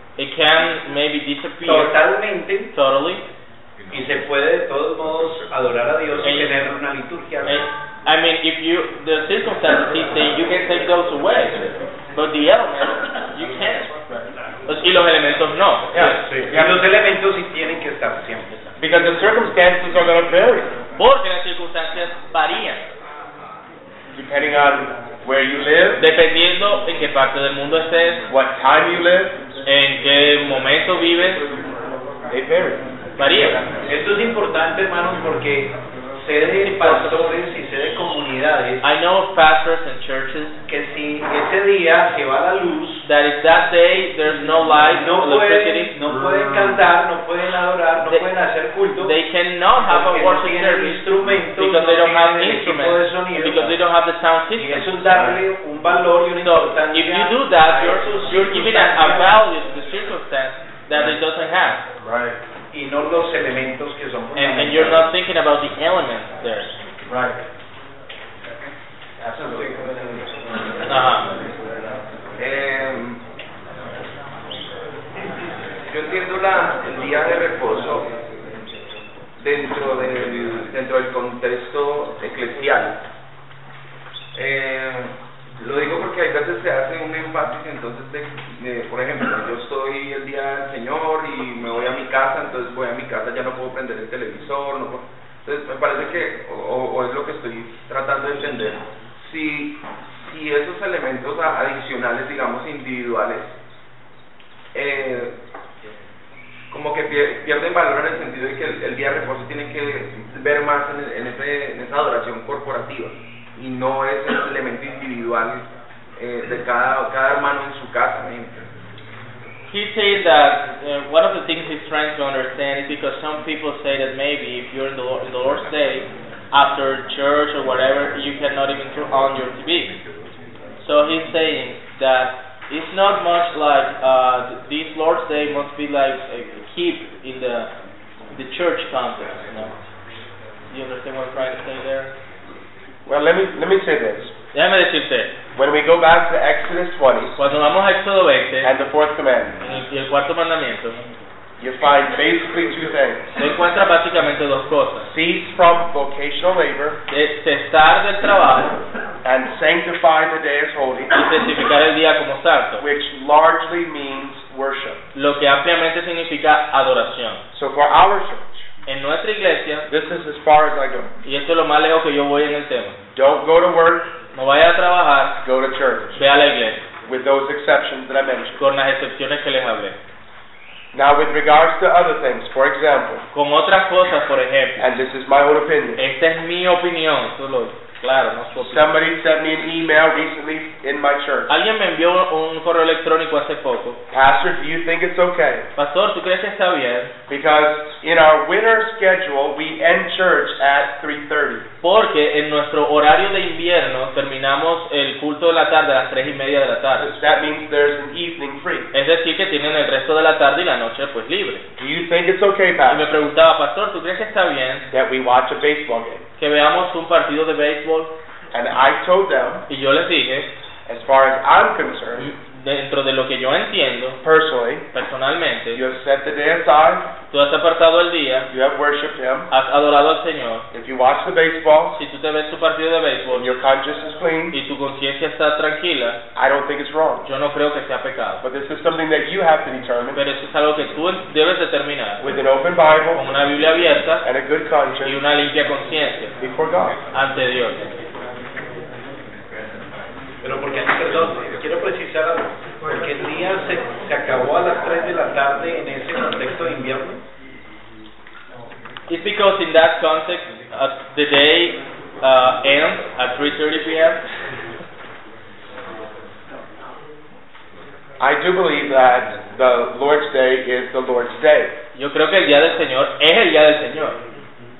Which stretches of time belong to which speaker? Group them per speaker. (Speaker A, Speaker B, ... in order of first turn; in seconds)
Speaker A: 0.2-2.0, 2.7-3.2, 6.2-6.5, 7.4-16.2, 21.0-22.8, 26.0-28.2, 29.6-31.4, 33.2-33.6, 36.6-37.3, 38.8-40.6, 43.0-45.9, 49.0-51.0, 51.6-55.0, 56.4-61.8, 64.3-66.7, 70.8-71.3, 119.7-129.9, 130.8-137.7, 138.3-139.7, 140.7-142.1, 144.5-145.3, 147.4-148.7, 149.6-151.0, 153.4-155.1, 157.1-158.8, 161.1-162.8, 165.2-167.4, 168.9-169.9, 171.2-173.0, 174.3-175.4, 176.2-176.8, 178.6-180.0, 183.3-184.8, 186.0-188.9, 191.5-194.0, 195.8-197.1, 201.8-207.1, 208.9-211.7, 212.9-214.9, 216.4-218.1, 219.7-220.5, 222.2-224.2, 224.9-225.8, 227.3-228.5, 229.5-230.7, 231.9-233.5, 234.5-236.2, 237.2-238.4, 240.1-242.2, 243.1-244.2, 245.0-246.3, 247.1-247.9, 259.1-264.2, 271.9-274.2
Speaker B: 1.6-2.7, 3.9-7.6, 16.0-18.7, 33.9-38.8, 40.7-43.0, 44.4-49.2, 49.8-53.8, 54.6-59.4, 62.7-65.1, 250.4-257.2
Speaker C: 15.9-16.8, 18.8-20.7, 24.1-26.0, 28.3-29.4, 32.3-32.8, 62.0-62.4, 67.1-67.4, 143.1-144.3, 145.6-147.4, 148.6-149.5, 151.6-153.3, 155.0-157.0, 159.2-161.1, 162.8-165.0, 167.5-168.7, 169.9-171.1, 173.2-174.1, 175.4-176.2, 177.1-178.6, 180.9-183.2, 184.8-186.0, 188.6-191.5, 194.1-195.7, 197.3-201.7, 207.0-208.9, 211.8-213.1, 214.9-216.2, 218.5-219.6, 220.9-222.3, 224.2-224.9, 225.7-227.1, 228.5-229.5, 230.7-232.0, 233.3-234.6, 236.3-237.3, 238.4-240.2, 242.2-243.2, 244.2-245.2, 246.4-247.0, 268.2-271.7
Speaker D: 72.4-73.2, 75.9-78.1, 79.4-83.0, 84.3-103.6, 104.7-105.3, 106.7-118.6